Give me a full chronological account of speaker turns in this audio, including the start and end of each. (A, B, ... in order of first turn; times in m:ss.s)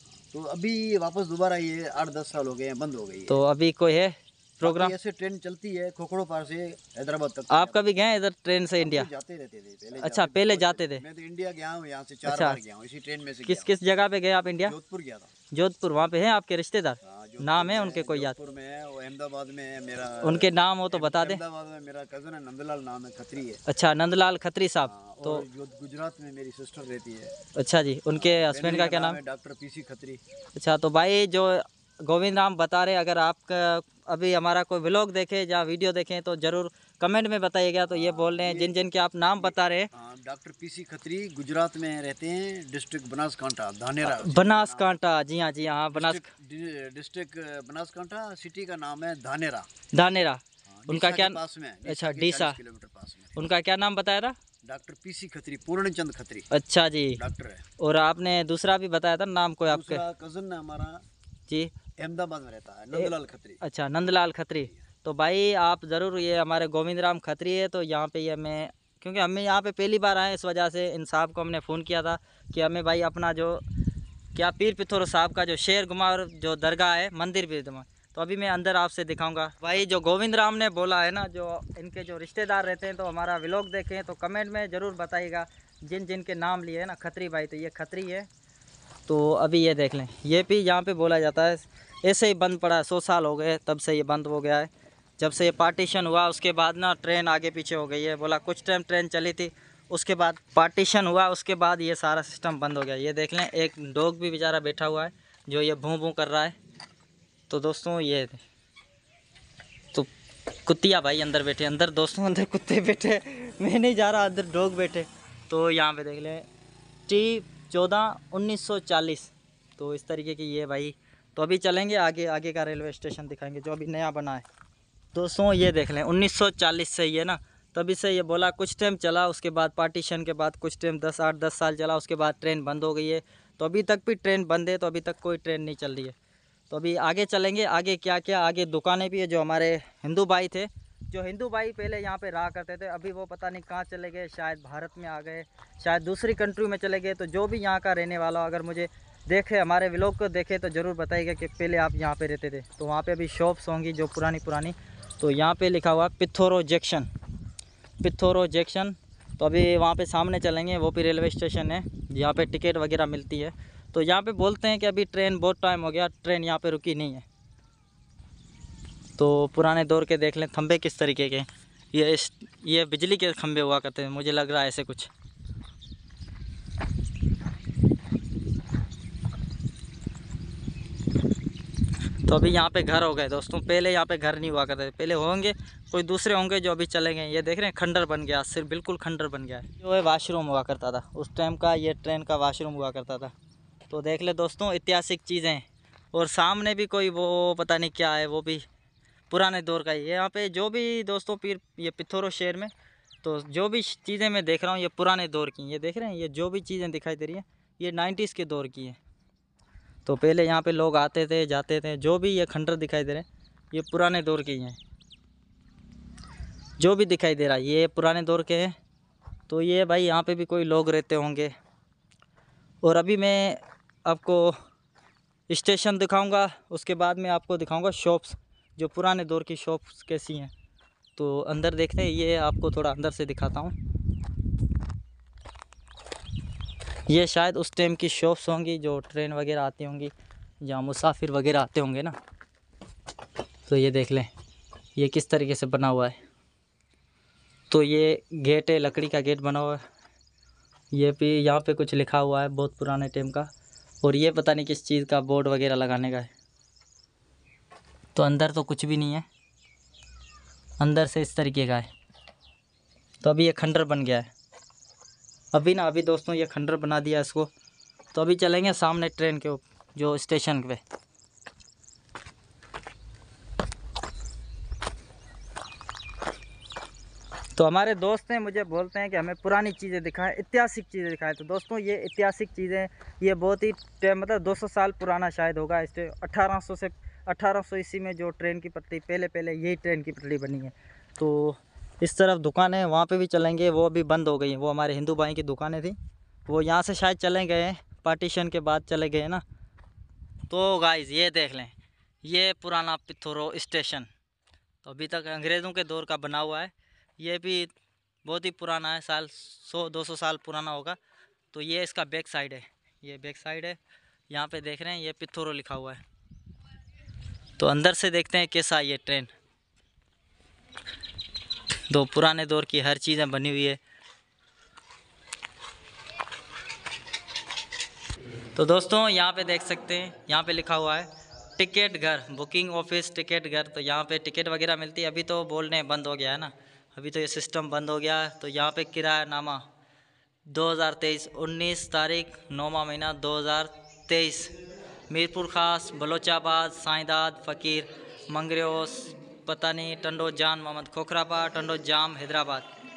0:00.3-0:03.4 A
0:03.3-0:04.9 B
0:04.6-0:07.9 A
0:07.5-0:09.1 B
0:08.8-0:13.7 A
0:10.0-0:11.0 B
0:12.3-0:12.6 B
0:13.4-0:14.8 B
0:14.6-0:15.3 A
0:15.5-0:18.4 B
0:17.0-0:23.6 A
0:20.2-0:21.4 B
0:23.7-0:25.4 B
0:24.8-0:27.3 A
0:27.6-0:29.2 B
0:28.2-0:30.2 A
0:30.6-0:39.9 B
0:37.9-0:38.8 A
0:39.4-0:44.9 A
0:44.0-0:46.3 B
0:45.9-0:49.7 A
0:49.9-0:52.6 B
0:50.7-0:53.5 A
0:53.4-0:54.4 B
0:54.7-0:56.5 A
0:56.5-0:57.2 B
0:57.2-0:57.7 A
0:57.8-1:00.0 B
0:59.7-1:01.0 A
1:01.5-1:01.7 B
1:02.0-1:03.6 A
1:02.9-1:13.6 B
1:14.4-1:28.3 B
1:29.1-1:46.6 B
1:47.5-1:48.4 B
1:50.7-1:56.5 B
1:57.1-2:04.4 B
2:05.1-2:16.2 B
2:16.7-2:37.1 B
2:38.0-2:47.3 B
2:49.2-2:55.1 B
3:02.3-3:13.3 B
3:13.9-3:18.7 B
3:19.3-3:22.7 B
3:23.2-3:29.0 B
3:30.0-3:34.8 B
3:36.8-3:38.7 B
3:39.5-3:41.5 B
3:42.8-3:44.5 B
3:45.5-3:50.5 B
3:51.2-3:53.8 B
3:57.1-4:02.2 B
4:03.7-4:04.3 B
4:05.0-4:06.2 B
4:07.7-4:09.8 B
4:10.9-4:13.5 B
4:14.0-4:16.3 B
4:18.2-4:19.3 B
4:20.8-4:21.9 B
4:23.2-4:24.3 B
4:25.5-4:27.5 B
4:28.1-4:30.8 B
4:37.6-4:56.0 B
4:56.5-4:59.4 B
5:00.5-5:04.1 B
5:04.8-5:07.7 B
5:08.2-5:11.0 B
5:11.5-5:13.8 B
5:14.3-5:16.0 B
5:17.6-5:19.3 B
5:21.9-5:23.8 B
5:28.6-5:39.6 B
5:40.5-5:44.5 B
5:45.1-5:52.7 B